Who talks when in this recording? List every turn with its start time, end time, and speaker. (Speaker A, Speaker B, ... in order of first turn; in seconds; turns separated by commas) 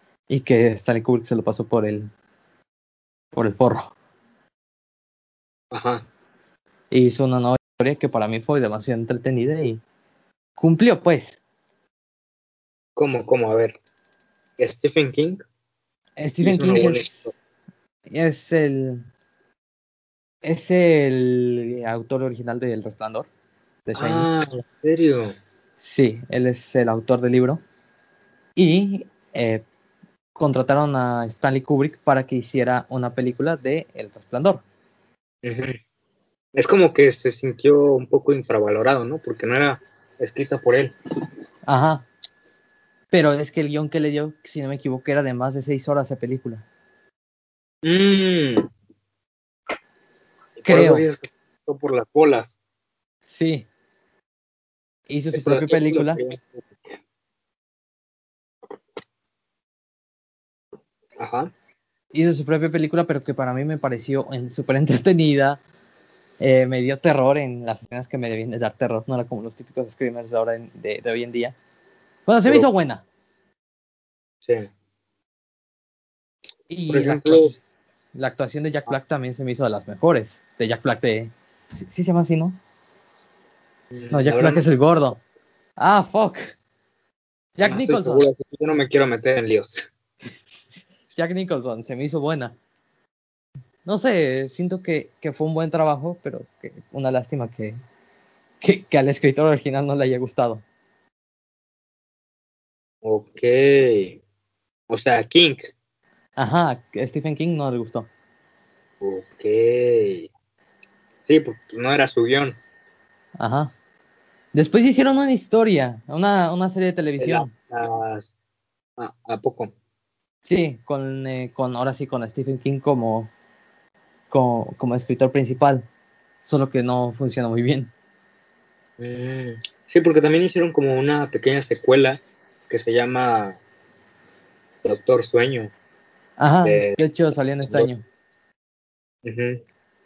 Speaker A: 0.3-2.1, Speaker A: 3.3-3.9, Speaker B: 5.7-6.0, Speaker A: 6.9-9.8, Speaker A: 10.6-11.4, Speaker B: 12.9-13.8, Speaker B: 14.6-15.4, Speaker A: 16.2-17.3, Speaker B: 16.4-17.3, Speaker A: 18.1-19.1, Speaker A: 20.4-23.3, Speaker A: 23.9-24.3, Speaker B: 23.9-25.4, Speaker A: 25.8-27.6, Speaker A: 28.6-29.6, Speaker A: 30.4-34.6, Speaker B: 35.4-35.8, Speaker B: 36.5-40.9, Speaker A: 41.6-42.0, Speaker A: 43.1-46.6, Speaker B: 47.8-48.7, Speaker B: 50.6-52.5, Speaker A: 50.7-51.0, Speaker A: 53.2-53.7, Speaker A: 55.1-56.2, Speaker B: 55.3-57.0, Speaker B: 61.2-61.5, Speaker A: 62.1-65.6, Speaker A: 66.4-71.5, Speaker A: 72.3-73.0, Speaker A: 76.7-77.6, Speaker B: 76.9-77.5, Speaker A: 78.1-82.6, Speaker B: 83.9-84.7, Speaker A: 84.1-85.2, Speaker A: 85.8-86.5, Speaker A: 87.5-88.2, Speaker B: 87.6-89.9, Speaker A: 90.2-92.5, Speaker A: 93.8-97.8, Speaker A: 98.6-100.6, Speaker B: 103.0-104.2, Speaker B: 104.9-105.7, Speaker A: 106.3-108.1, Speaker B: 109.0-110.3, Speaker B: 111.2-112.6, Speaker A: 113.4-113.7, Speaker A: 114.5-117.5, Speaker B: 117.2-118.3, Speaker B: 119.0-119.7, Speaker A: 120.4-123.3, Speaker A: 124.3-125.8, Speaker A: 126.4-127.9, Speaker B: 129.0-133.6, Speaker B: 134.8-135.7, Speaker A: 136.4-138.0, Speaker B: 136.6-137.0, Speaker B: 139.2-139.6